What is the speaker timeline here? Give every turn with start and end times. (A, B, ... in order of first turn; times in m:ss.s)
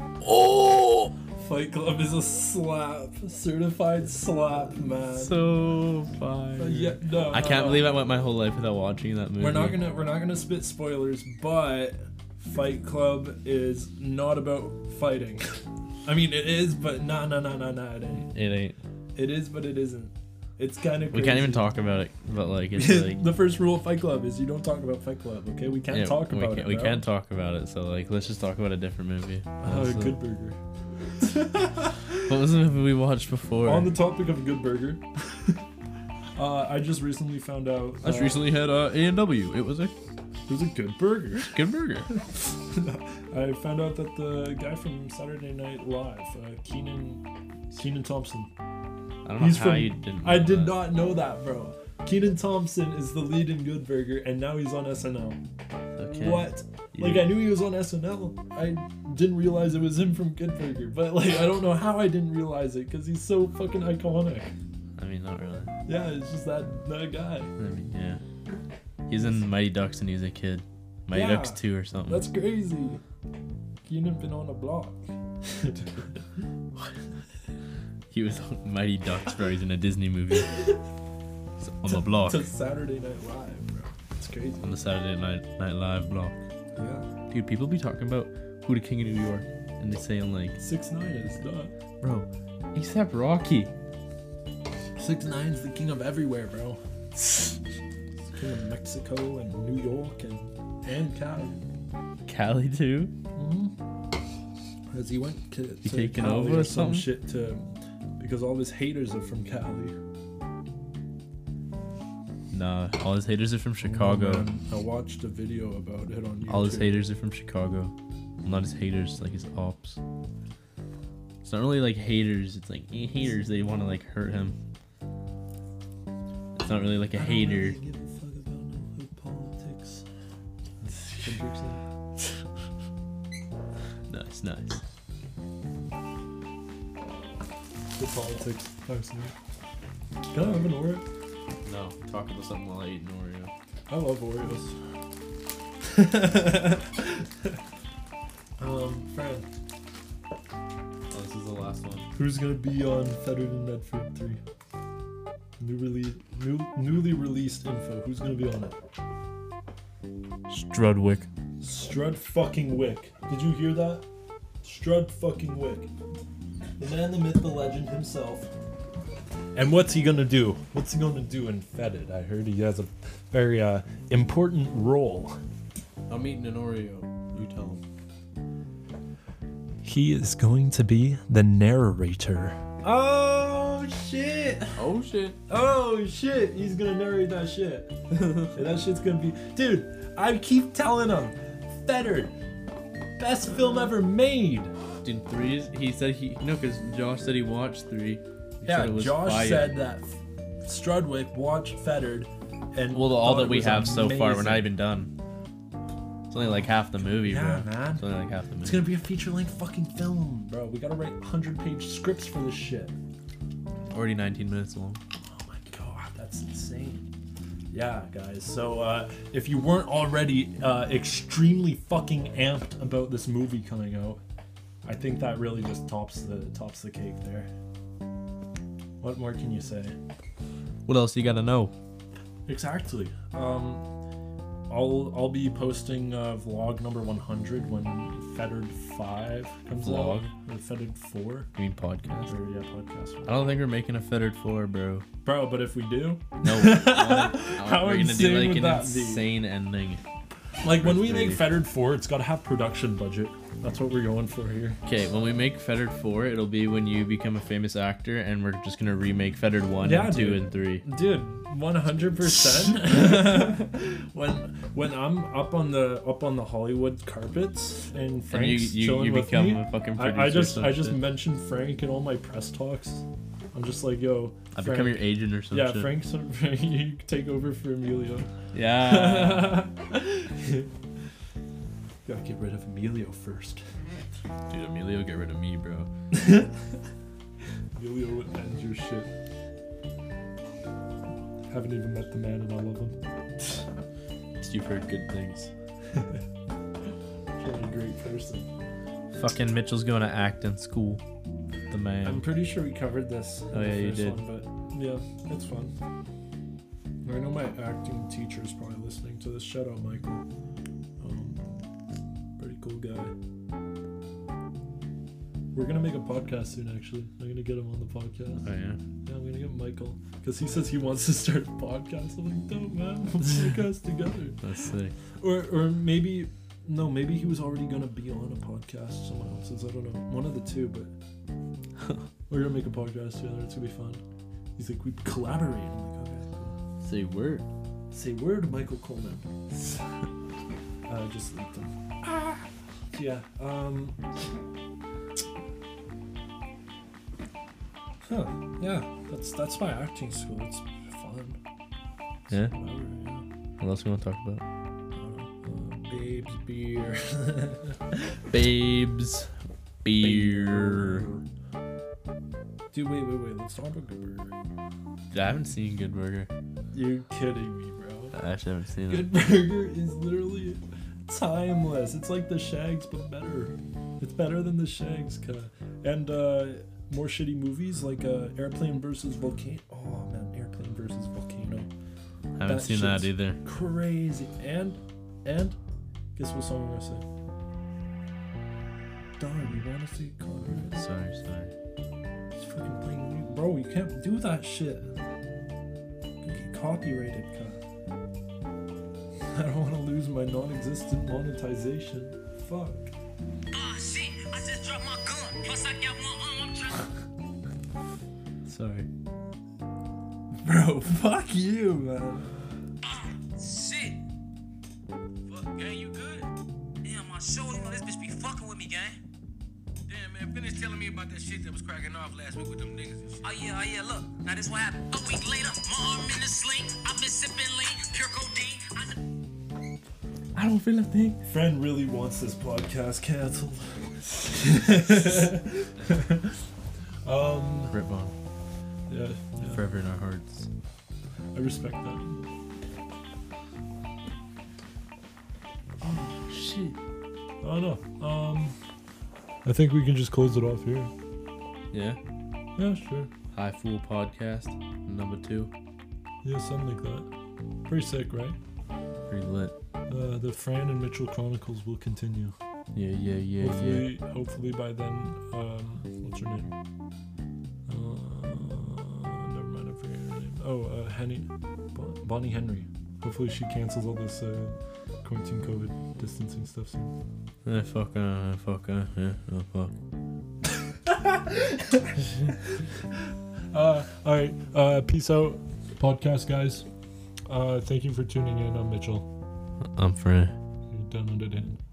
0:00.2-0:01.1 A
0:01.3-0:05.6 B
0:05.2-0:09.8 A
0:06.6-0:08.0 B
0:09.4-0:18.3 B
0:18.3-0:18.8 A
0:19.2-0:21.7 B
0:21.1-0:23.3 A
0:22.7-0:27.1 B
0:25.9-0:30.2 A
0:29.6-0:30.6 B
0:31.2-0:32.2 B
0:32.2-0:34.0 A
0:33.6-0:35.5 B
0:36.4-0:38.5 B
0:38.0-0:39.9 A
0:40.5-0:41.6 B
0:41.5-0:42.1 A
0:42.1-0:48.5 B
0:49.2-0:50.9 A
0:49.4-0:55.4 B
0:56.0-0:57.3 A
0:56.1-1:04.5 B
1:05.0-1:05.7 A
1:05.9-1:07.5 B
1:07.6-1:08.2 A
1:09.1-1:12.2 A
1:11.1-1:13.0 B
1:13.9-1:16.0 B
1:18.1-1:20.6 A
1:21.6-1:22.4 A
1:21.9-1:24.8 B
1:24.6-1:26.4 A
1:26.8-1:27.1 B
1:27.3-1:30.6 A
1:30.6-1:31.8 B
1:32.0-1:33.7 A
1:35.0-1:36.8 B
1:38.3-1:41.6 B
1:42.3-1:43.1 A
1:43.4-1:43.7 B
1:44.9-1:47.7 B
1:45.8-1:47.1 A
1:48.2-1:50.0 B
1:52.5-1:54.5 A
1:53.8-1:57.0 B
1:56.5-2:00.0 A
2:01.4-2:04.6 A
2:06.6-2:07.8 A
2:07.1-2:10.0 B
2:10.8-2:11.8 B
2:11.0-2:11.4 A
2:14.1-2:14.8 A
2:18.0-2:19.3 B
2:20.3-2:21.0 B
2:20.4-2:20.6 A
2:21.6-2:23.5 A
2:23.9-2:24.8 B
2:25.9-2:27.6 B
2:28.6-2:29.5 B
2:31.1-2:32.1 A
2:32.1-2:34.4 B
2:35.6-2:38.8 B
2:40.5-2:41.3 A
2:41.6-2:44.0 B
2:44.6-2:45.9 B
2:46.8-2:48.5 B
2:49.6-2:55.4 B
2:56.1-2:57.8 A
2:59.8-3:04.8 B
3:04.8-3:05.4 A
3:05.5-3:07.9 B
3:08.2-3:08.5 A
3:08.4-3:12.3 B
3:13.2-3:14.7 B
3:15.0-3:19.7 A
3:18.6-3:24.7 B
3:22.9-3:25.1 A
3:26.3-3:28.8 A
3:26.4-3:28.0 B
3:28.6-3:33.0 B
3:33.9-3:35.0 A
3:35.2-3:37.1 B
3:37.7-3:44.2 B
3:44.8-3:47.5 B
3:49.0-3:50.0 B
3:50.9-3:51.7 A
3:52.5-3:53.8 B
3:54.7-4:01.5 B
3:59.7-4:00.3 A
4:01.6-4:02.3 A
4:02.3-4:03.6 B
4:03.3-4:05.0 A
4:05.2-4:09.3 B
4:06.4-4:10.0 A
4:10.6-4:14.8 B
4:10.8-4:11.4 A
4:14.8-4:20.8 A
4:19.8-4:40.7 B
4:28.3-4:31.1 A
4:34.6-4:35.9 A
4:38.5-4:39.7 A
4:42.1-4:43.6 B
4:44.5-4:45.9 A
4:46.1-4:46.5 B
4:47.8-4:49.1 B
4:51.5-4:53.0 B
4:54.4-4:55.5 A
4:57.4-4:58.5 B
4:59.2-5:01.0 A
5:01.7-5:02.2 A
5:02.0-5:05.7 B
5:03.5-5:04.2 A
5:07.0-5:10.2 B
5:11.0-5:11.4 B
5:12.4-5:13.1 B
5:15.5-5:18.5 B
5:18.4-5:18.8 A
5:19.0-5:24.4 B
5:24.4-5:24.9 A
5:25.2-5:30.9 B
5:32.3-5:34.0 B
5:34.6-5:36.4 B
5:36.4-5:37.5 A
5:37.9-5:39.4 B
5:40.9-5:44.0 B
5:48.1-5:51.4 B
5:52.3-5:53.3 B
5:53.6-5:54.4 A
5:55.0-5:58.2 B
5:58.3-5:59.3 A
5:59.8-6:01.1 A
6:00.0-6:01.2 B
6:02.7-6:04.3 B
6:05.1-6:06.3 A
6:06.7-6:08.2 B
6:08.1-6:09.1 A
6:08.9-6:21.7 B
6:22.4-6:23.4 A
6:22.4-6:25.6 B
6:26.2-6:27.0 B
6:29.2-6:30.9 B
6:30.6-6:31.5 A
6:32.4-6:34.9 B
6:36.2-6:37.6 B
6:39.3-6:42.9 B
6:43.5-6:46.9 C
6:48.4-6:48.9 A
6:50.4-6:52.6 B
6:52.8-6:54.0 C
6:55.3-6:56.3 C
6:56.8-6:59.0 C
6:59.9-7:09.0 C
7:10.4-7:11.3 A
7:11.3-7:16.4 B
7:17.0-7:17.8 B
7:17.7-7:18.1 A
7:18.9-7:19.6 B
7:19.4-7:20.5 A
7:21.3-7:22.2 B
7:25.8-7:26.8 A
7:27.4-7:28.6 B
7:29.4-7:30.9 B
7:31.7-7:32.0 A
7:32.6-7:33.1 B
7:33.3-7:35.5 A
7:36.2-7:37.1 B
7:37.7-7:38.4 B
7:39.1-7:39.5 A
7:39.9-7:42.4 B
7:42.7-7:43.9 A
7:43.4-7:46.5 B
7:47.7-7:56.9 B
7:57.4-7:59.7 A
8:00.7-8:02.6 B
8:03.5-8:06.7 B
8:07.3-8:09.1 B
8:09.8-8:10.4 A
8:10.7-8:11.6 B